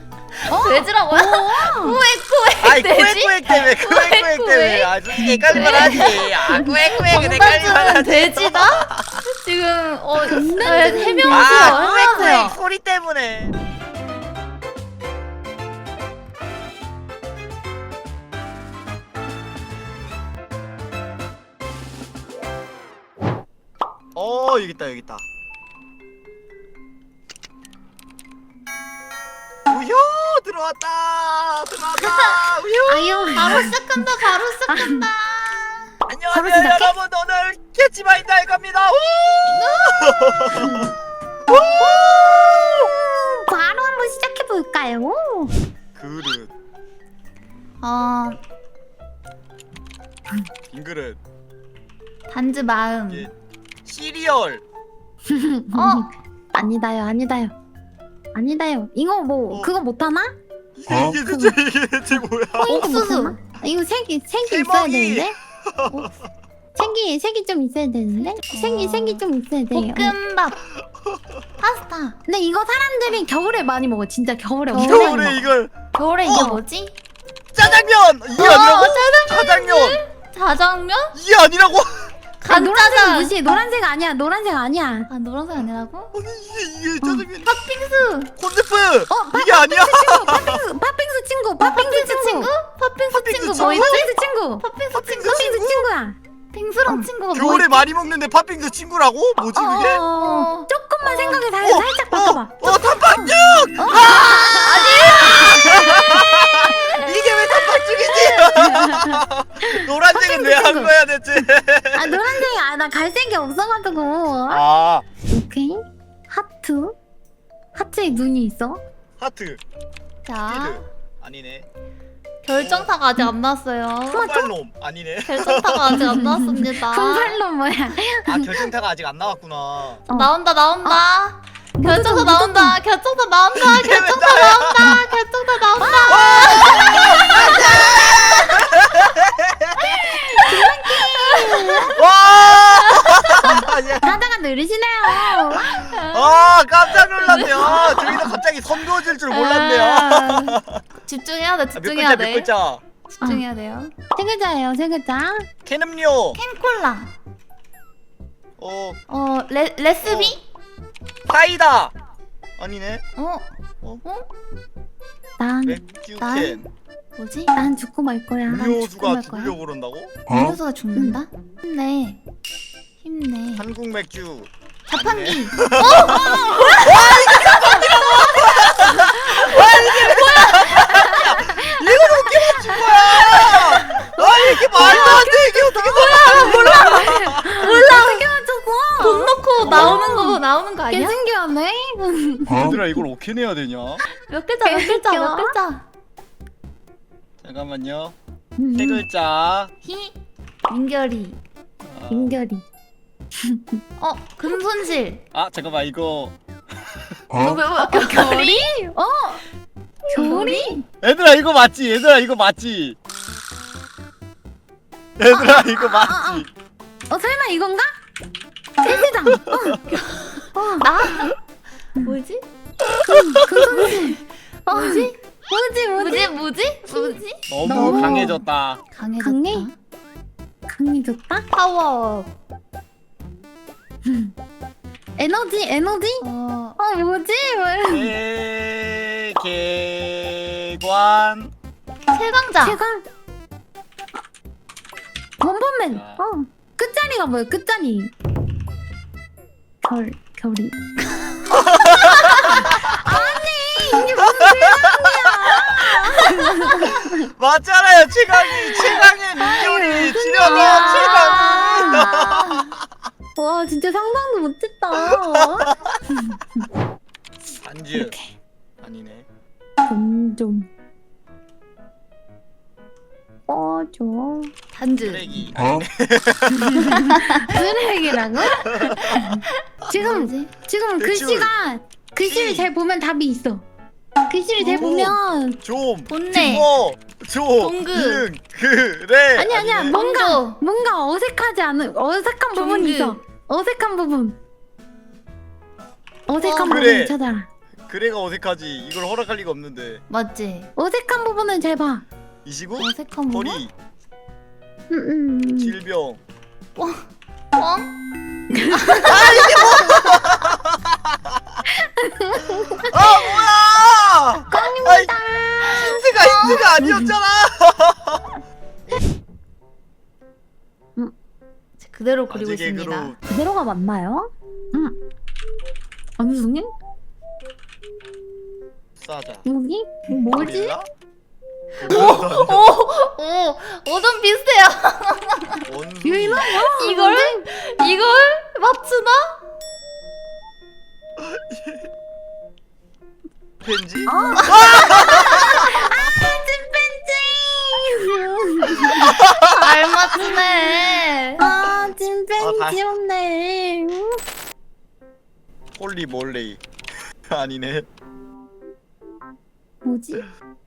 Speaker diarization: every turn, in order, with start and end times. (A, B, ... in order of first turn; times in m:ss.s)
0:00.5-0:12.6 A
0:00.5-0:02.0 B
0:02.6-0:09.2 C
0:05.4-0:06.2 B
0:10.3-0:12.4 B
0:11.3-0:13.6 C
0:24.2-0:25.2 C
0:29.7-0:33.7 C
0:32.0-0:34.0 B
0:32.0-0:32.6 A
0:33.4-0:35.9 A
0:34.7-0:35.1 B
0:36.1-0:40.9 C
0:36.3-0:37.0 B
0:39.5-0:40.0 A
0:40.6-0:40.9 B
0:41.5-0:42.9 C
0:41.7-0:45.5 B
0:46.0-0:46.5 C
0:47.8-0:48.4 A
0:50.7-0:51.2 C
0:52.3-0:53.3 A
0:53.1-0:53.3 C
0:53.8-0:54.6 C
0:55.3-0:57.5 B
0:55.7-0:56.1 A
0:58.3-1:00.4 B
1:00.8-1:02.8 C
1:00.9-1:01.6 B
1:02.5-1:05.4 B
1:02.7-1:03.4 A
1:04.4-1:06.0 C
1:05.9-1:06.2 A
1:06.8-1:10.2 B
1:08.1-1:10.6 A
1:11.6-1:12.2 A
1:12.3-1:15.4 B
1:14.7-1:15.4 A
1:14.8-1:15.7 C
1:15.9-1:17.0 A
1:16.3-1:16.6 B
1:17.5-1:20.0 C
1:18.4-1:21.2 A
1:18.4-1:19.1 B
1:21.1-1:22.1 C
1:22.4-1:23.4 A
1:22.5-1:25.1 B
1:25.1-1:26.1 A
1:26.1-1:27.8 C
1:27.5-1:28.3 A
1:28.3-1:30.6 C
1:29.1-1:32.5 B
1:31.6-1:35.5 A
1:33.1-1:34.1 C
1:33.5-1:34.6 B
1:34.9-1:35.9 C
1:35.2-1:36.2 B
1:36.5-1:37.8 A
1:37.3-1:40.1 C
1:39.5-1:46.3 B
1:40.1-1:41.4 A
1:41.6-1:52.4 C
1:43.8-1:48.3 A
1:47.7-1:51.0 B
1:52.0-1:54.6 B
1:54.5-1:55.1 C
1:55.3-1:57.0 B
1:57.8-1:58.8 B
1:59.2-1:59.6 C
2:00.2-2:00.9 A
2:00.5-2:01.7 C
2:02.4-2:04.3 A
2:02.6-2:02.9 C
2:04.1-2:04.5 B
2:04.2-2:06.3 C
2:05.2-2:07.4 A
2:06.0-2:08.7 B
2:08.3-2:10.1 C
2:10.1-2:18.6 A
2:11.8-2:12.8 B
2:13.6-2:14.9 C
2:15.8-2:18.2 B
2:16.1-2:19.8 C
2:19.8-2:21.9 B
2:20.5-2:23.7 A
2:22.0-2:24.2 C
2:23.4-2:25.9 B
2:25.6-2:30.8 C
2:25.6-2:32.5 A
2:31.8-2:32.8 C
2:33.1-2:33.9 A
2:34.2-2:35.5 B
2:35.6-2:36.4 C
2:36.3-2:37.1 A
2:38.6-2:39.0 C
2:39.1-2:40.4 A
2:40.0-2:40.4 C
2:41.3-2:41.9 C
2:42.6-2:43.0 C
2:43.2-2:43.5 A
2:44.0-2:44.3 A
2:45.4-2:45.8 B
2:45.6-2:46.7 C
2:46.2-2:46.6 A
2:47.2-2:47.6 A
2:47.6-2:48.8 B
2:48.5-2:50.2 C
2:48.6-2:49.6 A
2:50.3-2:52.2 A
2:53.0-2:53.6 A
2:53.6-3:07.8 C
2:54.9-3:01.1 A
2:56.1-2:57.8 B
2:58.4-2:59.4 B
3:00.8-3:13.0 B
3:04.8-3:08.3 A
3:09.0-3:11.2 A
3:09.6-3:10.0 C
3:12.5-3:14.1 C
3:14.3-3:15.9 A
3:14.6-3:15.5 B
3:17.4-3:18.2 C
3:18.6-3:19.1 B
3:18.7-3:19.7 C
3:19.8-3:21.4 A
3:21.8-3:22.4 C
3:22.1-3:22.6 B
3:23.4-3:23.8 B
3:24.0-3:25.2 A
3:25.3-3:26.4 C
3:27.3-3:28.7 A
3:27.8-3:29.4 B
3:30.1-3:30.8 A
3:30.1-3:30.8 B
3:30.9-3:33.0 C
3:35.2-3:36.5 C
3:35.3-3:36.5 B
3:37.1-3:37.9 B
3:38.8-3:39.8 B
3:38.9-3:39.8 C
3:39.9-3:41.4 A
3:40.6-3:40.9 B
3:42.0-3:42.4 A
3:43.0-3:44.2 B
3:43.3-3:43.9 C
3:43.7-3:45.2 A
3:44.7-3:46.3 B
3:46.0-3:48.4 A
3:46.9-3:48.4 B
3:47.5-3:48.8 C
3:48.9-3:49.7 A
3:49.2-3:49.7 B
3:50.7-3:51.4 B
3:51.5-3:52.3 A
3:54.1-3:54.3 B
3:55.2-3:56.3 B
3:56.2-3:56.8 A
3:56.8-3:58.2 B
3:57.9-4:01.5 C
4:02.1-4:02.8 A
4:02.6-4:03.1 B
4:05.4-4:08.1 B
4:05.9-4:06.2 C
4:09.8-4:10.8 B
4:11.1-4:12.7 A
4:11.5-4:13.4 C
4:12.4-4:17.3 B
4:14.0-4:22.6 C
4:18.4-4:22.0 B
4:20.4-4:22.7 A
4:23.4-4:26.6 B
4:25.0-4:26.0 C
4:27.6-4:28.2 C
4:27.9-4:28.4 B
4:28.8-4:29.3 C
4:29.8-4:30.7 B
4:33.5-4:34.5 B
4:34.7-4:35.3 A
4:35.1-4:37.0 C
4:36.7-4:38.6 B
4:36.9-4:37.5 A
4:38.6-4:39.4 C
4:38.7-4:40.5 A
4:39.9-4:43.6 B
4:41.0-4:41.5 C
4:42.2-4:42.7 C
4:44.3-4:45.6 B
4:44.6-4:44.9 A
4:44.7-4:50.0 C
4:46.1-4:46.7 A
4:47.6-4:48.3 A
4:49.4-4:54.4 B
4:49.9-4:50.6 A
4:52.5-4:53.2 A
4:56.3-4:57.5 B
4:56.4-4:56.9 A
4:56.7-4:57.2 C
4:57.9-5:00.0 C
5:00.1-5:00.7 A
5:00.8-5:02.0 B
5:02.4-5:03.7 C
5:02.8-5:03.6 A
5:04.9-5:05.8 B
5:05.6-5:06.2 C
5:06.8-5:07.0 A
5:07.6-5:07.9 A
5:08.5-5:10.2 B
5:08.7-5:09.9 A
5:09.0-5:11.6 C
5:12.0-5:13.4 B
5:12.8-5:15.2 C
5:14.5-5:17.2 B
5:15.7-5:18.3 C
5:16.0-5:16.6 A
5:21.8-5:23.2 A
5:22.3-5:23.2 C
5:23.3-5:25.0 B
5:26.2-5:26.7 B
5:29.0-5:29.5 C
5:29.4-5:30.8 B
5:30.3-5:30.9 C
5:31.8-5:32.7 C
5:31.8-5:35.6 A
5:35.7-5:36.6 C
5:36.0-5:37.4 B
5:36.8-5:39.4 A
5:41.2-5:41.8 C
5:43.6-5:45.9 C
5:44.0-5:49.2 B
5:48.8-5:49.7 C
5:49.2-5:51.5 A
5:51.4-5:54.2 B
5:52.4-5:52.8 C
5:55.8-5:56.6 C
5:57.3-5:57.9 C
5:59.8-6:00.3 B